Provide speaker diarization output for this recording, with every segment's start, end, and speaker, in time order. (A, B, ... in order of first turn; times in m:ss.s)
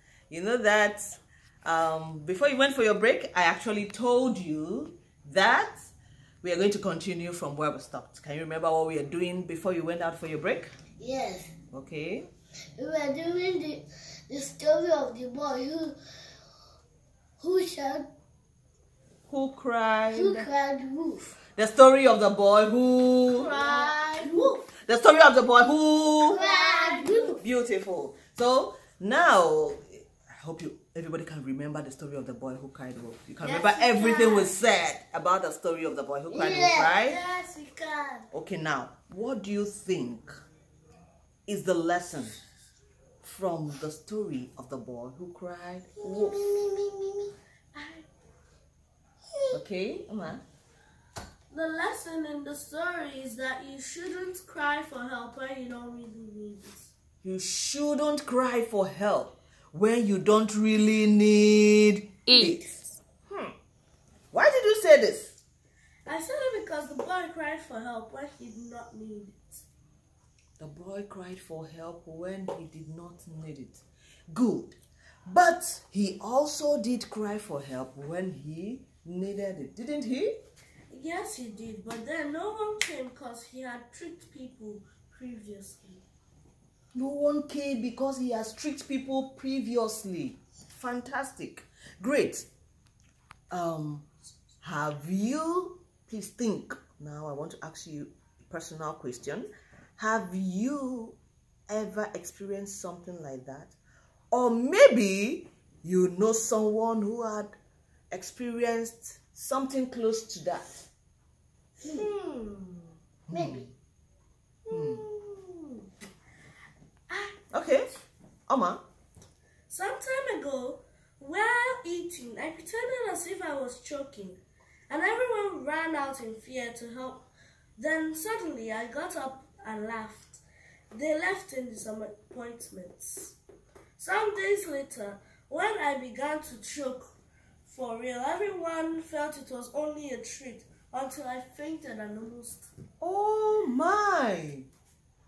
0:00.3-0:10.7 A
0:11.0-0:11.5 B
0:11.7-0:12.3 A
0:12.8-0:16.0 B
0:17.4-0:18.1 B
0:19.3-0:20.5 A
0:20.1-0:21.3 B
0:21.6-0:23.5 A
0:23.3-0:24.6 C
0:23.4-0:24.4 B
0:24.8-0:26.4 A
0:26.2-0:27.4 C
0:26.3-0:27.4 B
0:27.4-0:37.2 A
0:33.4-0:34.5 C
0:36.3-0:37.0 B
0:37.0-0:38.3 C
0:38.3-0:40.3 A
0:41.5-0:42.3 A
0:43.2-0:46.5 A
0:46.0-0:47.3 B
0:47.7-0:48.0 C
0:49.5-0:50.4 A
0:51.5-0:56.9 C
0:57.2-1:02.7 A
1:03.3-1:03.5 A
1:04.3-1:05.4 A
1:06.1-1:09.6 C
1:10.6-1:20.3 A
1:20.9-1:26.0 C
1:26.9-1:32.5 A
1:33.5-1:34.1 A
1:34.6-1:41.2 A
1:41.7-1:43.7 A
1:44.3-1:47.5 A
1:48.1-1:50.9 A
1:51.8-1:52.1 B
1:51.8-1:53.0 C
1:53.3-1:53.6 A
1:53.3-1:53.7 B
1:54.7-1:55.8 C
1:54.7-1:55.0 A
1:57.1-1:57.4 C
1:57.5-1:57.9 A
1:58.5-1:58.8 A
1:59.7-2:07.2 C
2:07.8-2:10.4 C
2:10.9-2:13.4 C
2:14.0-2:17.1 C
2:17.7-2:22.7 C
2:23.0-2:24.7 A